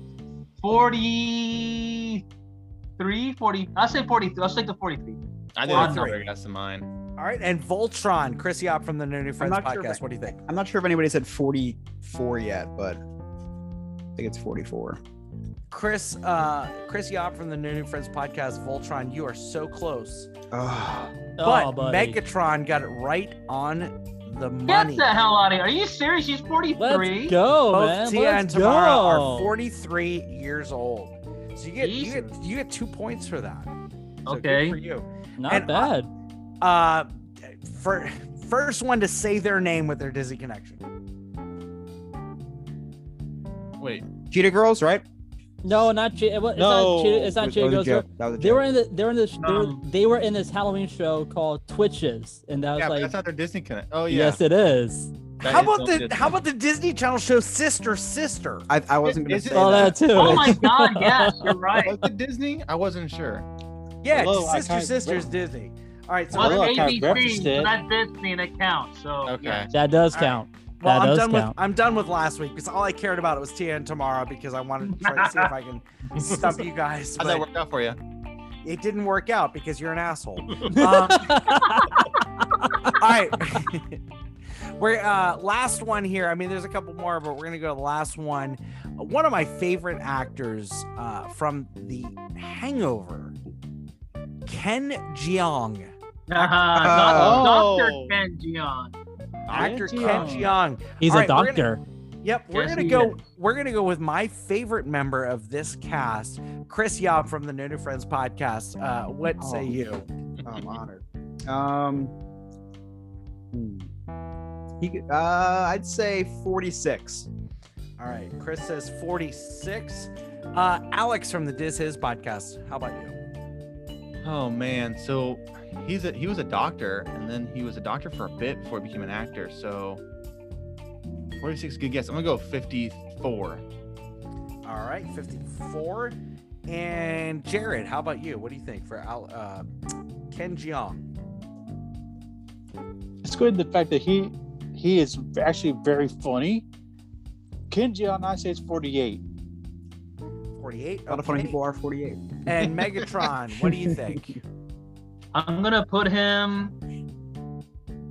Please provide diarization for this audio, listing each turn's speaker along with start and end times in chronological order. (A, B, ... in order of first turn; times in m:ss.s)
0:00.6-0:02.2 A
0:03.0-0:06.1 A
0:05.6-0:06.9 B
0:05.7-0:06.2 C
0:07.2-0:10.4 C
0:09.4-0:13.0 D
0:14.2-0:15.0 D
0:15.7-0:20.3 C
0:20.5-0:21.3 D
0:21.4-0:22.2 E
0:21.4-0:25.1 C
0:24.7-0:27.4 A
0:26.8-0:29.5 E
0:27.7-0:33.7 C
0:31.8-0:32.4 A
0:34.3-0:34.8 A
0:34.3-0:35.9 C
0:35.4-0:36.1 E
0:36.6-0:40.8 C
0:43.8-0:44.1 B
0:44.3-0:45.0 D
0:45.6-0:53.2 E
0:46.7-0:48.6 D
0:49.4-0:49.8 A
0:52.8-0:54.4 B
0:54.1-0:55.1 E
0:55.4-0:58.7 C
0:55.4-0:56.4 B
0:58.7-1:00.1 D
0:59.0-1:00.5 B
0:59.5-1:01.8 E
1:00.1-1:02.0 A
1:01.8-1:03.5 B
1:04.0-1:07.2 C
1:04.1-1:05.3 F
1:06.3-1:07.8 F
1:06.3-1:09.7 A
1:09.3-1:09.7 B
1:09.7-1:11.5 E
1:10.1-1:17.5 C
1:16.2-1:16.6 B
1:17.2-1:18.0 B
1:18.6-1:21.6 C
1:20.7-1:22.1 E
1:22.8-1:24.0 C
1:24.8-1:33.4 C
1:34.5-1:37.2 C
1:36.3-1:39.0 A
1:36.8-1:37.5 D
1:37.0-1:38.0 F
1:37.7-1:38.1 B
1:39.5-1:41.7 C
1:39.5-1:40.5 E
1:41.0-1:41.8 E
1:42.2-1:50.0 C
1:42.5-1:43.2 A
1:49.4-1:49.7 D
1:50.4-1:52.1 D
1:53.5-1:53.9 D
1:54.8-1:57.3 D
1:58.0-2:03.2 C
2:04.2-2:10.0 B
2:11.4-2:13.6 B
2:14.6-2:19.7 C
2:20.3-2:21.1 C
2:23.2-2:26.6 F
2:27.7-2:29.2 F
2:30.6-2:31.6 C
2:31.1-2:32.8 D
2:32.4-2:34.4 C
2:35.3-2:36.8 A